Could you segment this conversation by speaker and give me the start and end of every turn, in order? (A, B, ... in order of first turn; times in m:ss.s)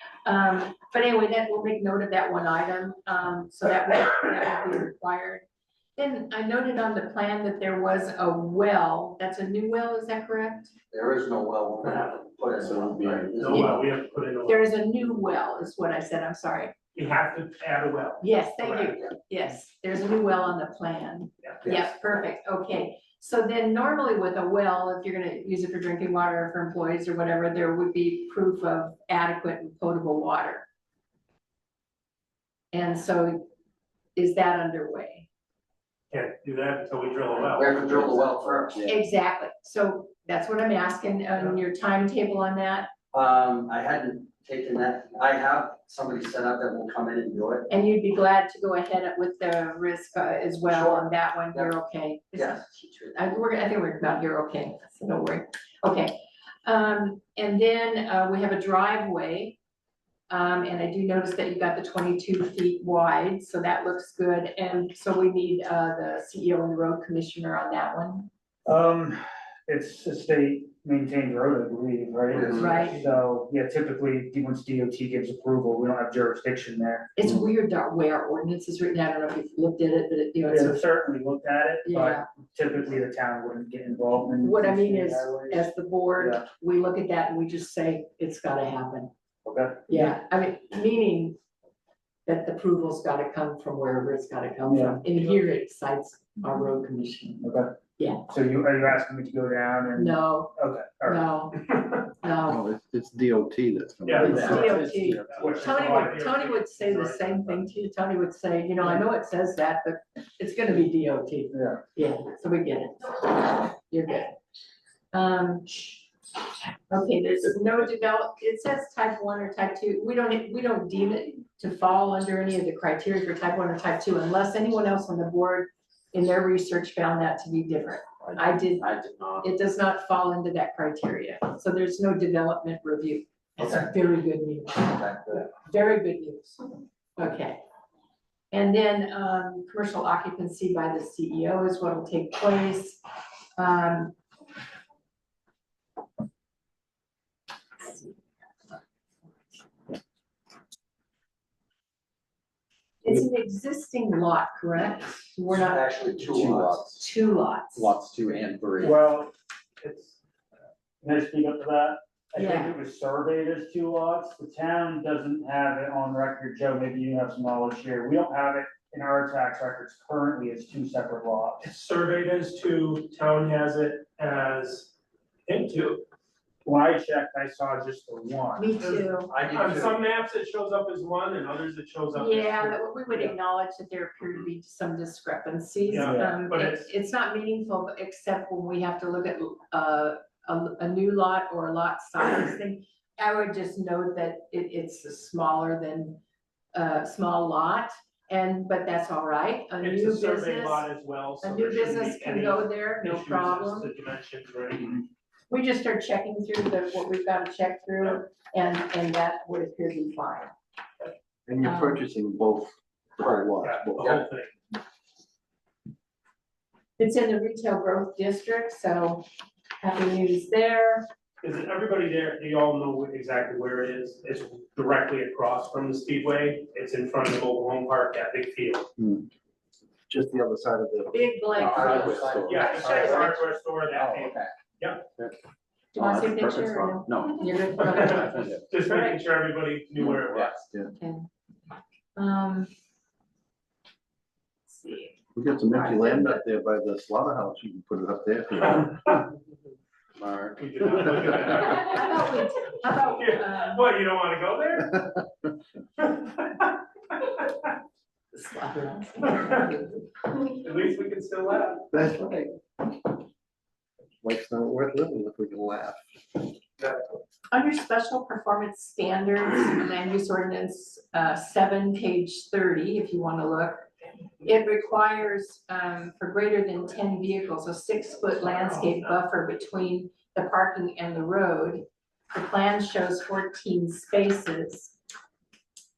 0:00.2-0:05.4 A
0:06.0-0:10.7 A
0:10.9-0:13.8 B
0:12.6-0:13.5 C
0:13.4-0:14.6 D
0:13.5-0:13.8 A
0:14.4-0:16.7 A
0:16.9-0:18.3 D
0:18.2-0:30.6 A
0:18.6-0:19.1 B
0:21.6-0:21.9 B
0:32.7-0:33.4 A
0:34.2-0:35.3 A
0:36.1-0:38.2 D
0:37.4-0:38.9 B
0:38.8-0:42.9 A
0:43.1-0:47.6 B
0:47.7-0:59.6 A
0:50.7-0:51.7 B
0:52.3-0:53.2 B
1:00.3-1:08.3 A
1:08.6-1:17.1 E
1:12.3-1:12.8 B
1:12.6-1:13.0 A
1:12.6-1:13.1 D
1:17.2-1:20.8 A
1:20.5-1:26.4 E
1:21.8-1:22.2 A
1:24.4-1:29.1 A
1:29.4-1:30.1 E
1:29.9-1:31.4 A
1:32.2-1:37.4 A
1:34.6-1:35.0 E
1:37.4-1:37.7 E
1:38.0-1:38.2 A
1:38.3-1:41.2 E
1:40.0-1:42.7 A
1:42.5-1:45.6 C
1:44.0-1:47.6 D
1:44.2-1:54.3 A
1:45.4-1:46.1 E
1:51.5-1:51.8 E
1:55.1-1:56.0 A
1:56.9-2:08.9 A
2:08.8-2:09.5 B
2:09.4-2:16.5 A
2:13.6-2:13.9 B
2:14.8-2:15.5 B
2:17.2-2:17.6 A
2:18.5-2:23.0 A
2:23.6-2:24.1 A
2:27.8-2:28.2 A
2:33.0-2:35.9 A
2:35.5-2:37.0 B
2:36.3-2:36.8 C
2:36.9-2:37.9 A
2:37.9-2:38.8 B
2:38.8-2:40.2 E
2:41.0-2:51.6 E
2:42.4-2:42.7 A
2:51.6-2:54.9 D
2:55.5-2:56.0 D
2:56.6-2:58.7 E
2:58.6-2:59.3 A
2:58.8-3:03.3 D
2:59.3-3:00.0 B
3:02.1-3:16.2 A
3:05.9-3:06.9 D
3:05.9-3:06.4 E
3:16.7-3:20.8 A
3:19.8-3:25.0 D
3:21.4-3:23.9 A
3:25.5-3:30.5 A
3:31.5-3:34.2 C
3:31.6-3:32.0 A
3:33.2-3:34.2 B
3:33.6-3:34.5 D
3:37.0-3:39.2 A
3:39.8-3:41.0 A
3:41.4-3:48.9 D
3:49.0-3:49.3 C
3:50.1-3:53.2 C
3:51.1-3:53.3 A
3:51.6-3:53.3 B
3:52.4-3:55.0 D
3:54.0-3:54.5 B
3:55.9-3:58.5 A
3:56.0-3:57.0 C
3:57.0-3:58.7 B
3:57.8-4:00.6 D
4:00.3-4:00.6 B
4:00.5-4:00.9 C
4:00.9-4:01.3 A
4:02.2-4:02.7 A
4:04.7-4:06.4 A
4:05.3-4:09.0 C
4:10.2-4:10.5 B
4:10.5-4:12.3 D
4:11.4-4:13.9 A
4:13.2-4:15.3 D
4:16.0-4:17.5 D
4:18.3-4:20.0 A
4:19.3-4:19.6 D
4:20.4-4:21.9 D
4:21.9-4:22.6 C
4:24.2-4:26.2 C
4:27.5-4:33.9 A
4:34.4-4:45.0 A